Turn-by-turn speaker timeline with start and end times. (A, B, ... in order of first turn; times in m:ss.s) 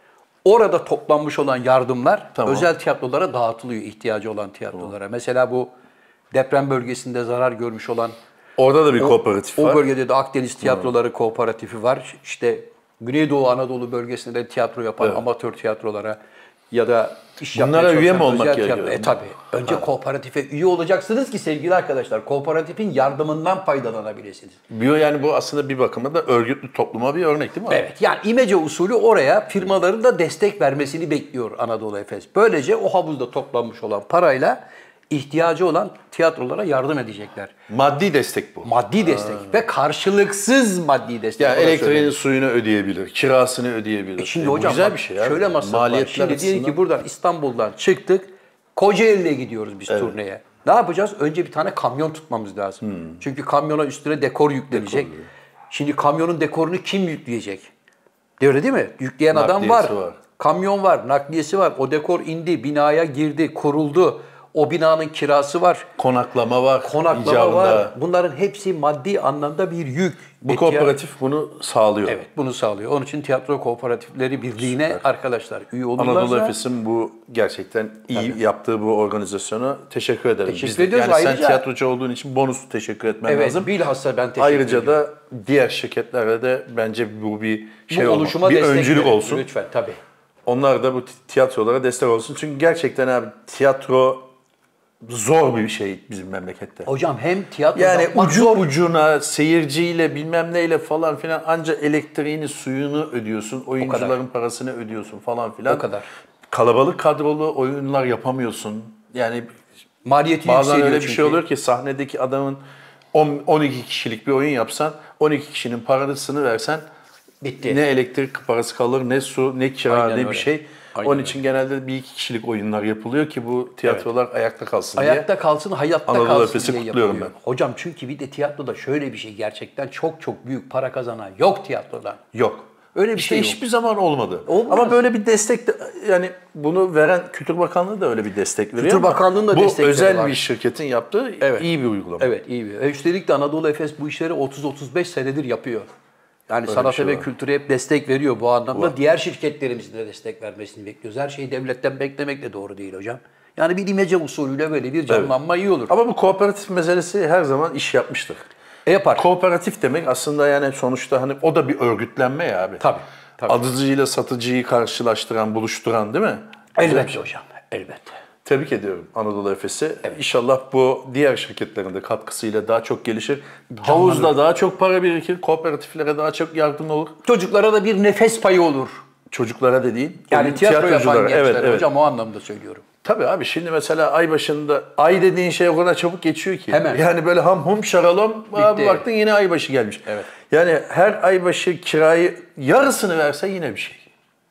0:00.4-0:05.7 A
0:02.3-0:02.7 B
0:06.3-0:08.2 A
0:08.6-0:09.8 B
0:09.0-0:16.2 A
0:10.6-0:10.9 B
0:16.7-0:24.6 A
0:17.5-0:19.8 B
0:24.7-0:27.8 B
0:27.7-0:37.5 A
0:37.7-0:39.6 B
0:38.6-0:42.1 A
0:41.4-0:46.8 B
0:44.2-0:55.1 A
0:49.9-0:50.1 B
0:52.8-0:53.2 B
0:54.7-0:55.3 B
0:55.7-0:57.7 A
0:58.4-1:05.9 A
0:59.3-1:00.2 B
1:06.0-1:07.9 B
1:06.8-1:10.9 A
1:10.4-1:12.2 B
1:12.0-1:16.6 A
1:14.6-1:15.0 B
1:16.0-1:23.7 B
1:20.5-1:21.6 A
1:23.2-1:25.0 A
1:24.4-1:29.4 B
1:27.9-1:30.0 A
1:30.4-1:34.3 B
1:35.0-1:36.9 B
1:36.8-1:38.7 A
1:37.7-1:45.8 B
1:43.8-1:44.2 A
1:45.7-1:46.1 A
1:46.5-1:49.5 B
1:50.0-1:51.4 A
1:50.4-1:52.6 B
1:53.1-1:56.8 B
1:57.4-1:57.8 A
1:57.6-2:05.3 B
1:59.9-2:01.4 A
2:05.0-2:12.2 A
2:06.1-2:07.3 B
2:12.3-2:22.3 B
2:12.9-2:13.6 A
2:14.4-2:15.0 A
2:18.8-2:20.4 A
2:21.4-2:21.7 A
2:22.2-2:25.9 A
2:26.5-2:35.9 A
2:26.7-2:27.2 B
2:35.1-2:35.3 B
2:35.9-2:38.4 B
2:38.8-2:39.2 A
2:39.2-2:42.8 B
2:42.8-2:43.6 A
2:43.4-2:47.2 B
2:46.8-2:48.1 A
2:48.4-2:57.2 B
2:53.7-2:54.3 A
2:57.2-2:59.0 A
2:59.3-3:01.9 B
3:00.3-3:02.8 A
3:03.0-3:14.1 B
3:06.7-3:07.0 A
3:08.5-3:09.0 A